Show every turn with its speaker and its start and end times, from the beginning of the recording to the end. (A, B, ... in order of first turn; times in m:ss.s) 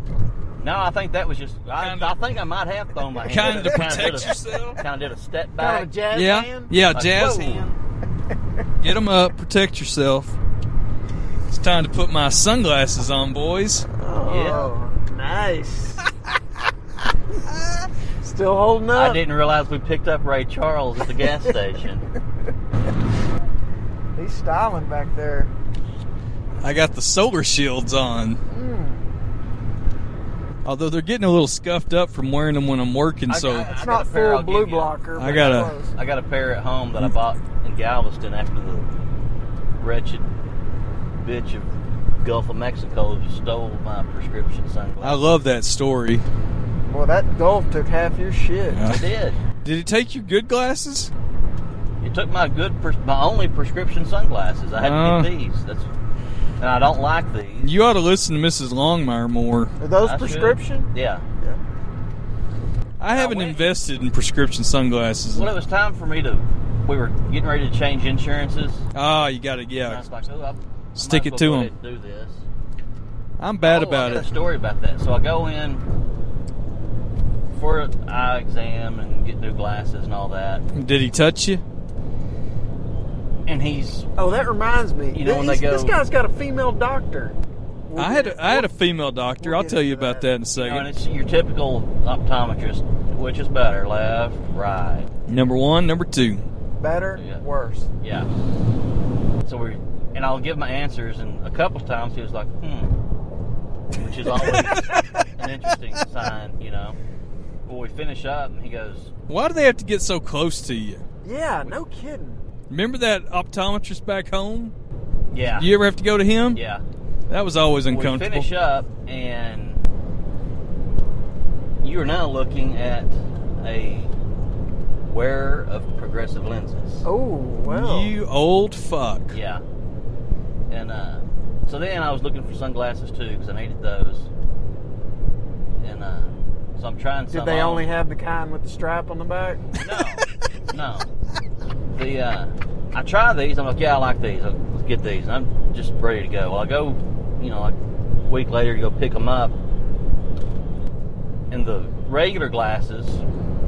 0:00.6-0:05.9 A
0:01.8-0:02.1 B
0:03.2-0:04.8 B
0:05.6-0:06.7 C
0:06.1-0:07.7 B
0:06.9-0:07.7 A
0:08.8-0:10.4 B
0:11.5-0:13.9 B
0:14.0-0:16.0 C
0:14.2-0:14.7 A
0:18.2-0:19.2 C
0:18.9-0:22.1 A
0:24.2-0:25.5 C
0:26.6-0:28.4 B
0:28.5-0:29.0 C
0:30.6-0:33.7 B
0:33.3-0:38.9 A
0:33.7-0:35.9 C
0:35.2-0:35.7 B
0:39.8-0:40.2 A
0:41.2-0:41.7 A
0:42.2-0:45.2 A
0:45.0-0:46.2 B
0:46.9-0:48.8 C
0:48.7-0:49.1 B
0:48.8-0:49.4 A
0:49.6-0:51.1 B
0:52.0-0:55.9 A
0:54.8-0:55.3 B
0:56.6-0:57.7 A
0:57.6-0:59.7 B
0:59.8-1:00.9 C
1:00.0-1:01.2 A
1:03.0-1:05.5 B
1:03.1-1:03.6 A
1:05.3-1:08.8 A
1:08.9-1:10.0 B
1:09.8-1:12.4 A
1:11.0-1:11.7 B
1:13.4-1:14.3 B
1:13.6-1:15.8 A
1:17.5-1:20.6 A
1:20.7-1:21.6 B
1:23.5-1:24.1 A
1:24.2-1:27.4 C
1:25.1-1:26.0 A
1:27.9-1:28.7 C
1:28.0-1:30.9 B
1:29.4-1:30.2 C
1:30.5-1:35.1 A
1:35.3-1:36.4 B
1:36.8-1:37.9 C
1:37.2-1:37.4 A
1:38.0-1:38.3 A
1:39.4-1:43.0 A
1:44.0-1:47.0 A
1:47.6-1:49.1 A
1:49.3-1:51.0 B
1:51.2-1:52.4 C
1:52.7-1:54.7 B
1:55.3-1:55.7 A
1:55.5-1:56.6 B
1:56.5-1:56.8 A
1:57.3-1:58.5 B
1:57.9-1:59.8 A
2:01.8-2:04.1 A
2:05.1-2:07.0 A
2:07.0-2:08.1 C
2:07.6-2:09.3 B
2:09.3-2:09.6 A
2:10.7-2:14.3 A
2:15.8-2:17.9 A
2:17.3-2:19.6 C
2:19.8-2:21.1 A
2:21.9-2:29.5 A
2:31.5-2:33.2 A